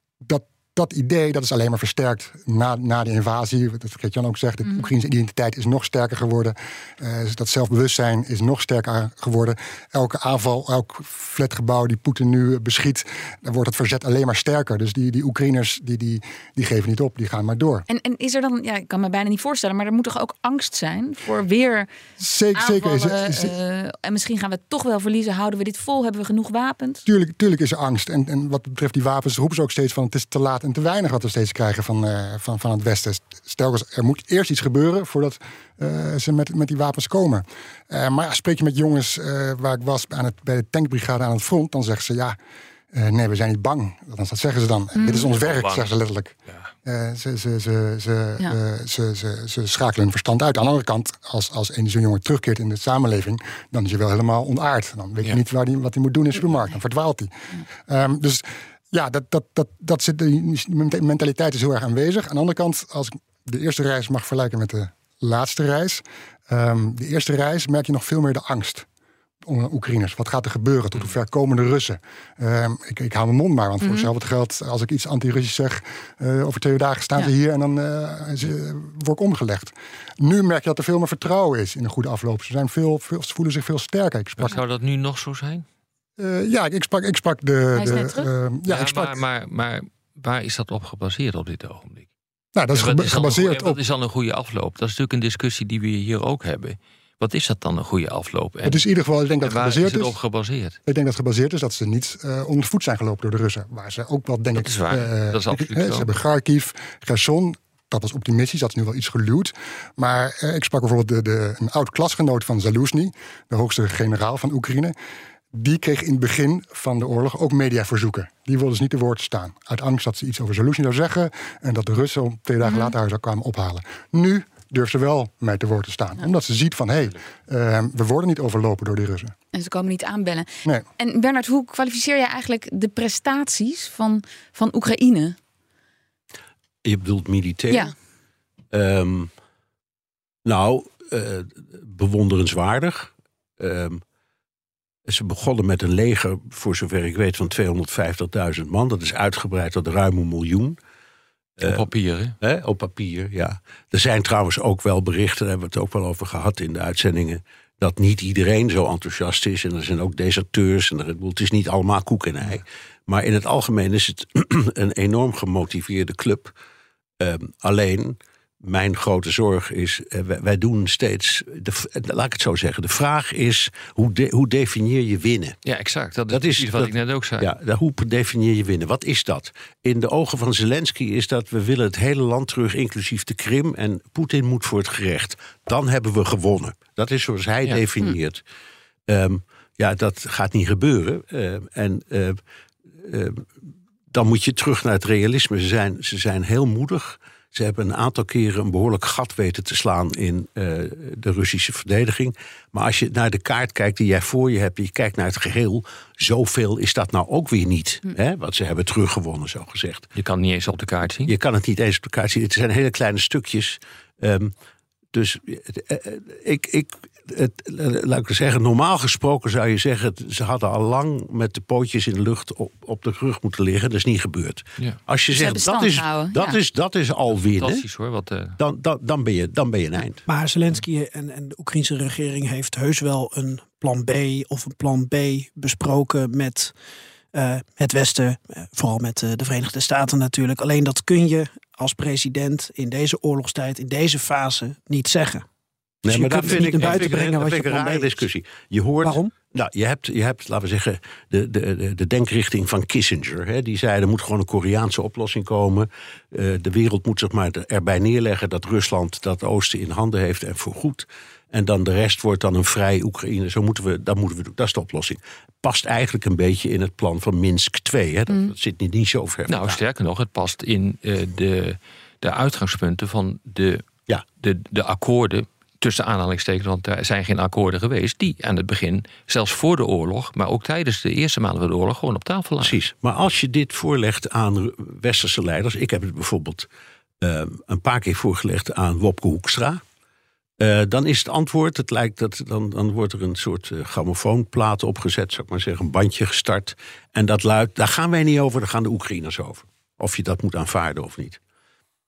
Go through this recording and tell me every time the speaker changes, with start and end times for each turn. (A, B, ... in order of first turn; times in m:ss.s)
0:00.2-0:17.8 A
0:17.9-0:21.9 B
0:22.2-0:23.5 A
0:22.5-0:27.0 B
0:27.0-0:42.4 A
0:42.9-1:08.8 A
0:44.9-0:45.3 B
0:45.1-0:45.9 C
1:09.4-1:24.6 A
1:13.8-1:14.1 B
1:24.4-1:25.6 C
1:26.2-1:29.2 A
1:27.7-1:28.3 B
1:28.7-1:32.1 C
1:32.5-1:33.8 A
1:32.7-1:38.8 C
1:38.6-1:40.2 A
1:39.4-1:40.8 C
1:40.8-1:54.9 A
1:44.6-1:46.1 C
1:55.5-2:09.3 A
2:02.6-2:02.9 B
2:09.5-2:15.4 B
2:16.8-2:17.9 D
2:18.7-2:19.3 D
2:20.4-2:24.0 D
2:25.1-2:30.8 D
2:31.6-2:32.4 C
2:32.4-2:46.5 D
2:47.2-2:55.6 D
2:55.6-2:57.5 C
2:56.3-3:08.4 D
3:09.1-3:12.4 D
3:13.0-3:13.4 D
3:14.1-3:30.1 D
3:30.2-3:31.3 C
3:31.3-3:34.5 D
3:35.1-3:47.8 D
3:45.3-3:46.6 B
3:47.3-3:48.6 C
3:48.6-3:50.2 D
3:50.2-3:56.7 E
3:57.3-4:05.4 E
4:06.0-4:08.2 E
4:06.0-4:29.8 D
4:06.7-4:07.0 C
4:09.0-4:09.3 E
4:29.5-4:33.8 C
4:34.4-4:42.8 C
4:42.6-4:46.7 D
4:47.2-4:49.8 D
4:50.6-5:01.4 D